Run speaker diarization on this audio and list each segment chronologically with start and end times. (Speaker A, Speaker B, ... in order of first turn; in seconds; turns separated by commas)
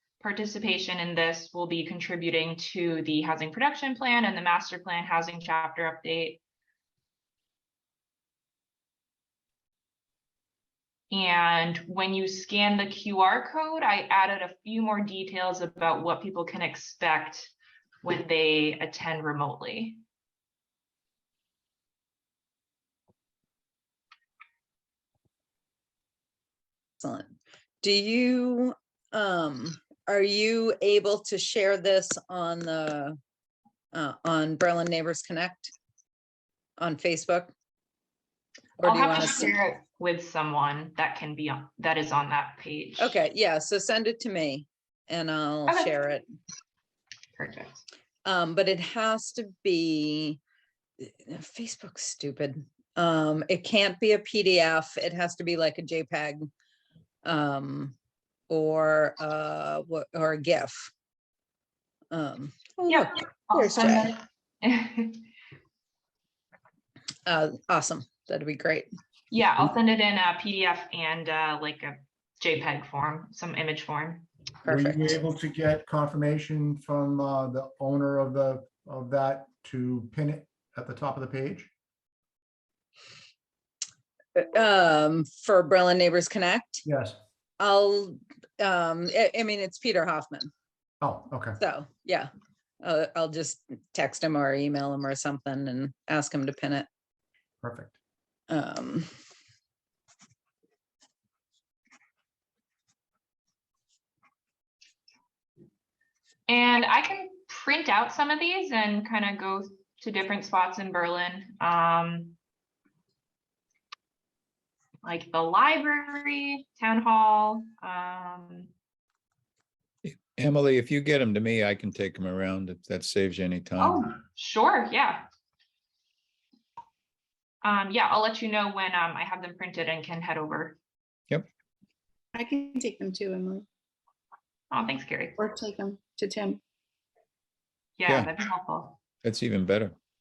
Speaker A: 0.2-6.4, Speaker A: 11.1-17.5, Speaker A: 18.0-20.0, Speaker B: 27.0-33.2, Speaker B: 33.9-35.7, Speaker B: 36.8-37.5, Speaker B: 38.8-39.5, Speaker A: 38.8-43.2, Speaker B: 43.0-46.2, Speaker A: 47.4-47.8, Speaker B: 48.2-50.4, Speaker B: 51.0-56.5, Speaker B: 57.2-58.0, Speaker B: 58.5-60.9, Speaker B: 62.1-64.1, Speaker A: 62.9-65.2, Speaker B: 67.2-68.9, Speaker A: 69.3-74.3, Speaker B: 74.6-75.2, Speaker C: 74.7-81.7, Speaker B: 84.3-86.8, Speaker C: 86.9-87.2, Speaker B: 87.6-90.5, Speaker C: 91.0-91.6, Speaker B: 91.6-92.3, Speaker B: 92.8-96.9, Speaker C: 97.6-98.0, Speaker B: 98.5-99.1, Speaker A: 106.5-112.4, Speaker A: 115.0-118.7, Speaker D: 120.0-124.1, Speaker A: 123.8-125.2, Speaker A: 127.6-130.8, Speaker E: 132.3-133.7, Speaker A: 134.7-135.4, Speaker E: 135.4-136.6, Speaker A: 138.0-139.0, Speaker D: 138.1-138.3, Speaker D: 139.2-140.0